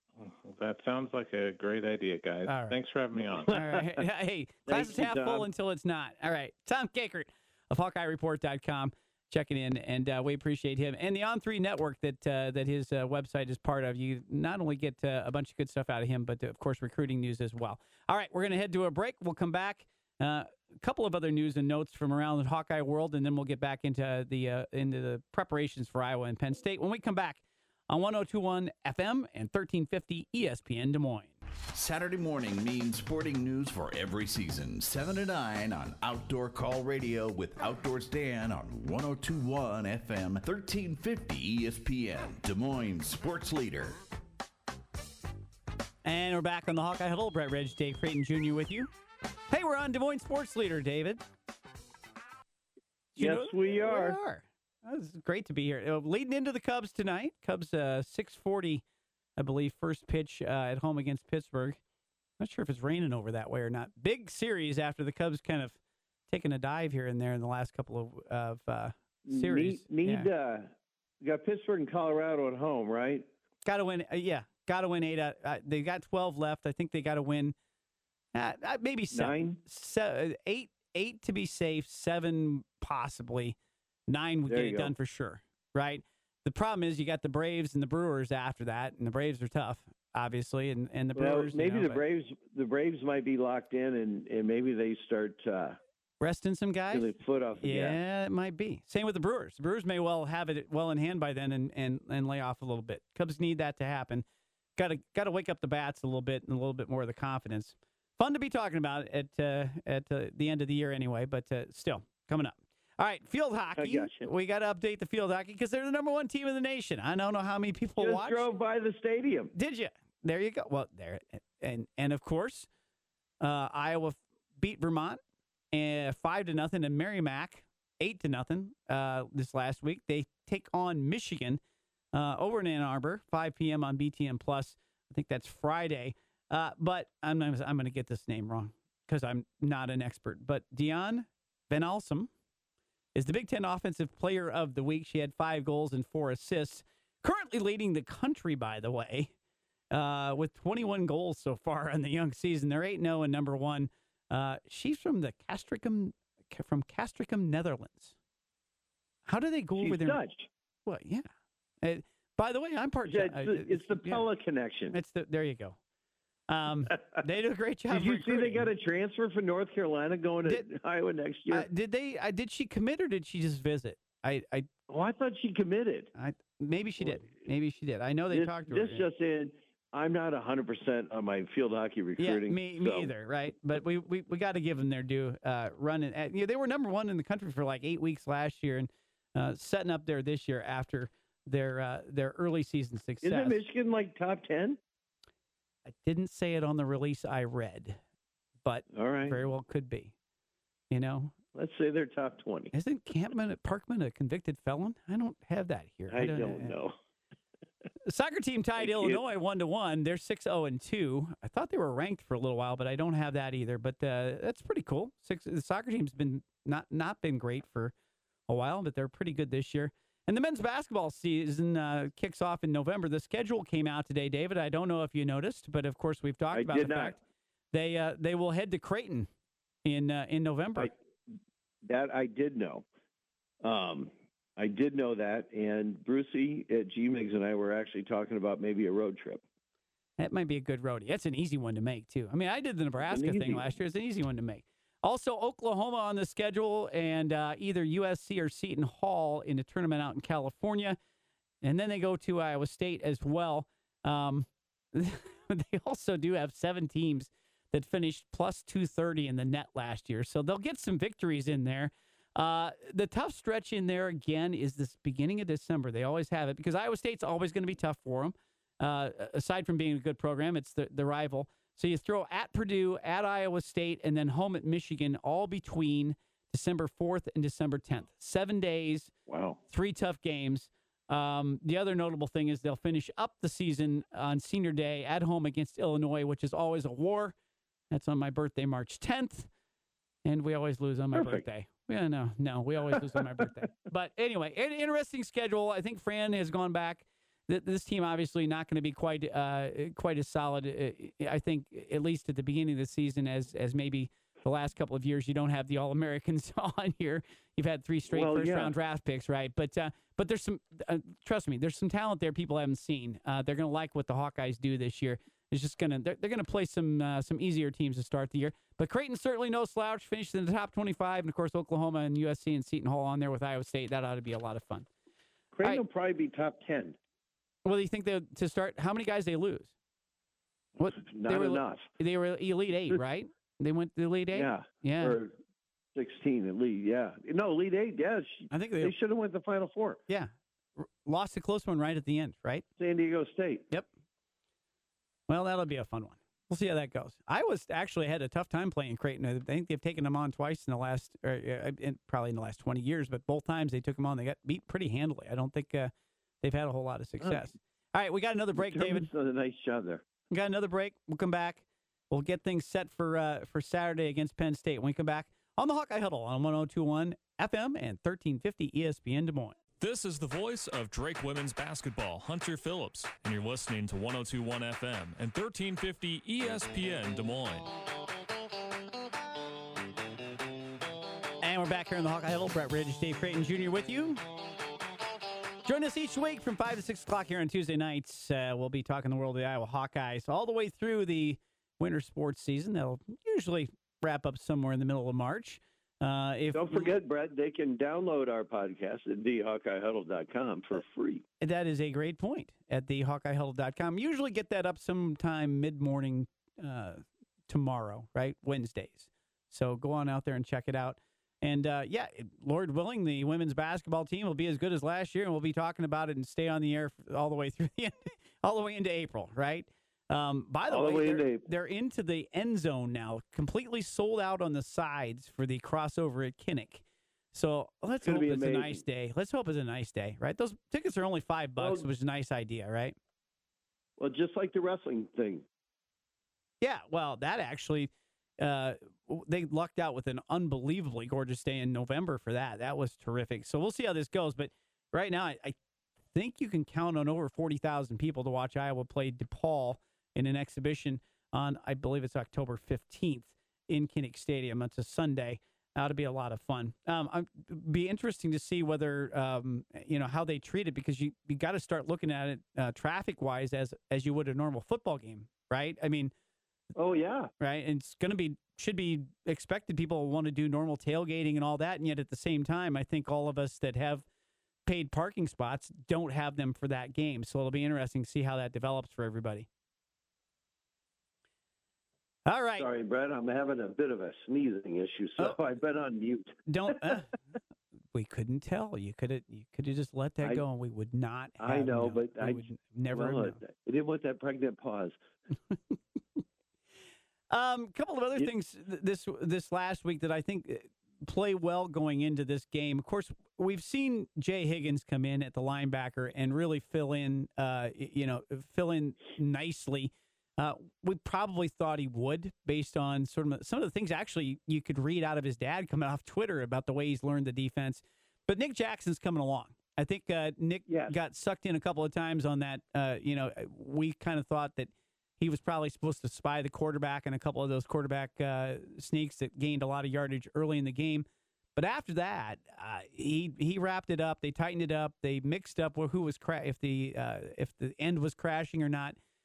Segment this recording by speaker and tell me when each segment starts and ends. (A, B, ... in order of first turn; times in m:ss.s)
0:00.2-0:03.7 A
0:02.4-0:02.8 B
0:03.5-0:04.0 C
0:03.5-0:31.3 B
0:04.7-0:05.4 C
0:31.7-0:44.0 D
0:46.0-0:48.9 B
0:49.5-0:51.2 B
0:53.2-0:54.2 C
0:53.2-0:58.8 B
0:59.4-1:01.8 B
1:02.4-1:05.8 B
1:06.3-1:10.3 B
1:09.3-1:13.3 C
1:13.6-1:17.6 B
1:18.3-1:23.6 B
1:19.1-1:19.6 C
1:24.1-1:32.0 B
1:24.5-1:24.9 C
1:31.2-1:35.8 C
1:36.2-1:58.5 B
1:36.9-1:38.0 C
1:53.8-1:54.3 C
1:58.0-1:59.5 C
1:59.5-2:02.7 B
2:03.4-2:05.2 B
2:05.7-2:11.6 B
2:12.1-2:22.3 B
2:23.1-2:29.3 B
2:29.9-2:38.1 B
2:39.2-2:40.2 B
2:39.8-2:40.5 C
2:40.8-2:41.2 B
2:41.8-2:44.2 B
2:43.1-2:45.0 C
2:44.9-2:45.8 B
2:46.5-2:48.7 B
2:47.9-2:51.7 C
2:51.5-2:54.7 B
2:54.9-2:56.1 C
2:56.1-2:59.1 B
2:57.0-2:57.3 C
2:58.3-3:03.1 C
3:02.2-3:13.6 B
3:13.2-3:14.8 C
3:15.8-3:18.0 B
3:18.6-3:20.1 B
3:18.9-3:19.4 C
3:20.9-3:21.3 B
3:21.5-3:22.7 C
3:22.7-3:26.7 B
3:26.1-3:26.9 C
3:28.0-3:37.9 B
3:28.8-3:29.2 C
3:38.5-3:47.2 B
3:46.5-3:47.2 C
3:47.7-3:49.3 B
3:49.8-3:50.9 B
3:51.8-3:52.8 C
3:53.6-3:59.4 C
4:00.2-4:11.0 B
4:03.1-4:03.7 C
4:11.6-4:39.1 B
4:39.3-4:39.6 C
4:39.7-4:47.3 B
4:47.9-4:49.5 B
4:50.2-5:24.9 B
4:51.1-4:51.4 C
5:08.1-5:08.7 C
5:25.5-5:27.0 C
5:27.6-5:29.7 B
5:30.8-5:35.2 B
5:30.9-5:31.8 C
5:34.3-5:35.3 C
5:35.9-5:40.0 C
5:38.5-5:38.9 B
5:40.1-5:42.6 B
5:42.8-5:43.6 C
5:45.3-5:59.1 B
5:58.5-6:00.0 C
6:00.3-6:09.6 B
6:09.8-6:17.7 E
6:21.4-6:24.2 B
6:25.6-6:36.9 B
6:36.5-6:41.2 C
6:41.4-7:13.0 B
7:00.7-7:01.4 C
7:08.0-7:08.8 C
7:11.6-7:11.9 C
7:14.0-7:15.5 C
7:16.6-7:25.6 B
7:26.1-7:46.1 B
7:46.8-7:47.3 C
7:47.4-7:54.0 B
7:54.6-7:59.5 B
8:02.2-8:02.7 B
8:02.6-8:06.3 C
8:06.5-8:07.1 B
8:07.9-8:13.4 B
8:11.4-8:14.9 C
8:15.5-8:15.8 B
8:17.3-8:59.0 B
8:40.7-8:41.0 C